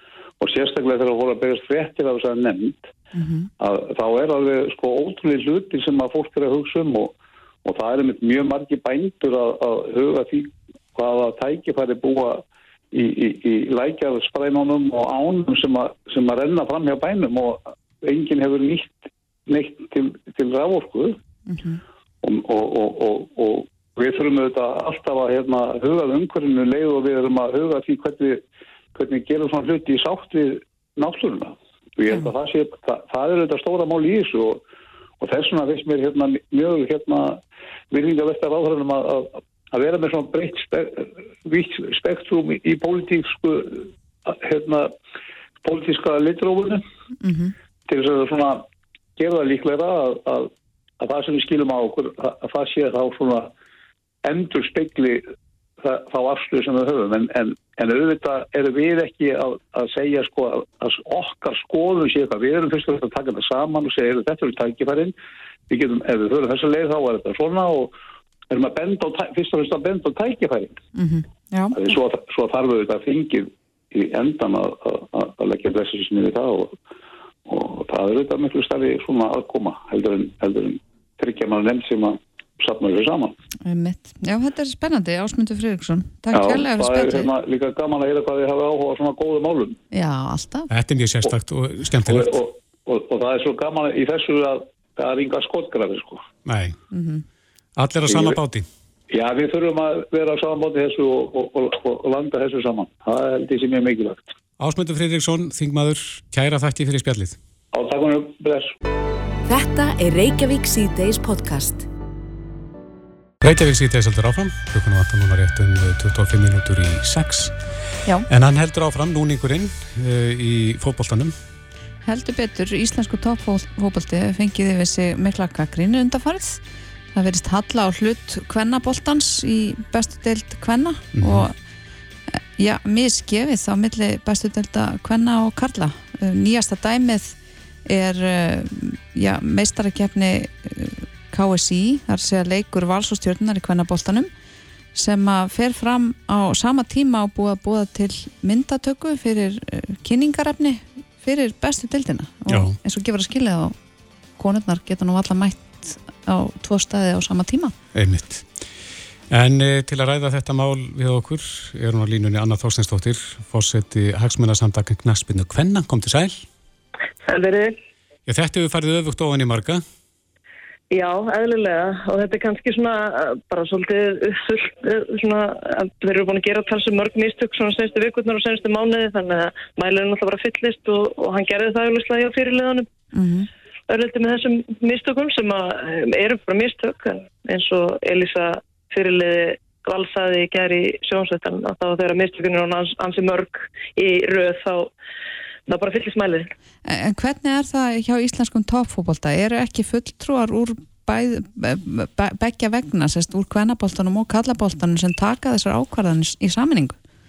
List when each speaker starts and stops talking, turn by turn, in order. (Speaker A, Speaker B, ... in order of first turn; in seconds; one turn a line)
Speaker A: 0.4-2.9
Speaker B: 3.1-3.5
Speaker A: 3.6-7.1
Speaker A: 7.7-21.2
Speaker B: 21.5-21.8
Speaker A: 22.2-28.4
Speaker A: 28.9-34.6
Speaker A: 35.2-37.4
Speaker A: 37.9-44.9
Speaker A: 45.6-46.8
Speaker B: 47.2-47.5
Speaker A: 47.9-48.6
Speaker A: 49.2-53.5
Speaker A: 54.2-55.2
Speaker A: 55.8-65.1
Speaker A: 65.7-67.9
Speaker A: 68.5-70.8
Speaker B: 71.0-71.9
Speaker A: 71.8-76.8
Speaker A: 77.5-83.3
Speaker B: 83.7-87.3
Speaker A: 86.3-89.8
Speaker B: 89.9-90.7
Speaker C: 90.7-92.4
Speaker A: 92.1-96.3
Speaker C: 96.5-96.8
Speaker B: 96.9-97.2
Speaker C: 97.8-98.7
Speaker A: 98.1-98.4
Speaker A: 99.1-104.3
Speaker C: 104.6-107.4
Speaker A: 107.7-108.7
Speaker D: 109.5-111.9
Speaker C: 113.4-117.5
Speaker C: 118.3-121.3
Speaker B: 122.0-131.6
Speaker C: 131.2-131.5
Speaker B: 132.3-144.3
Speaker B: 144.9-153.8
Speaker C: 152.5-152.8
Speaker B: 154.4-157.7
Speaker C: 157.9-158.5
Speaker C: 159.3-166.5
Speaker E: 167.3-167.8
Speaker C: 168.3-169.8
Speaker E: 170.9-182.9
Speaker B: 183.1-183.5
Speaker E: 183.9-194.9
Speaker E: 195.7-196.5
Speaker B: 196.8-207.0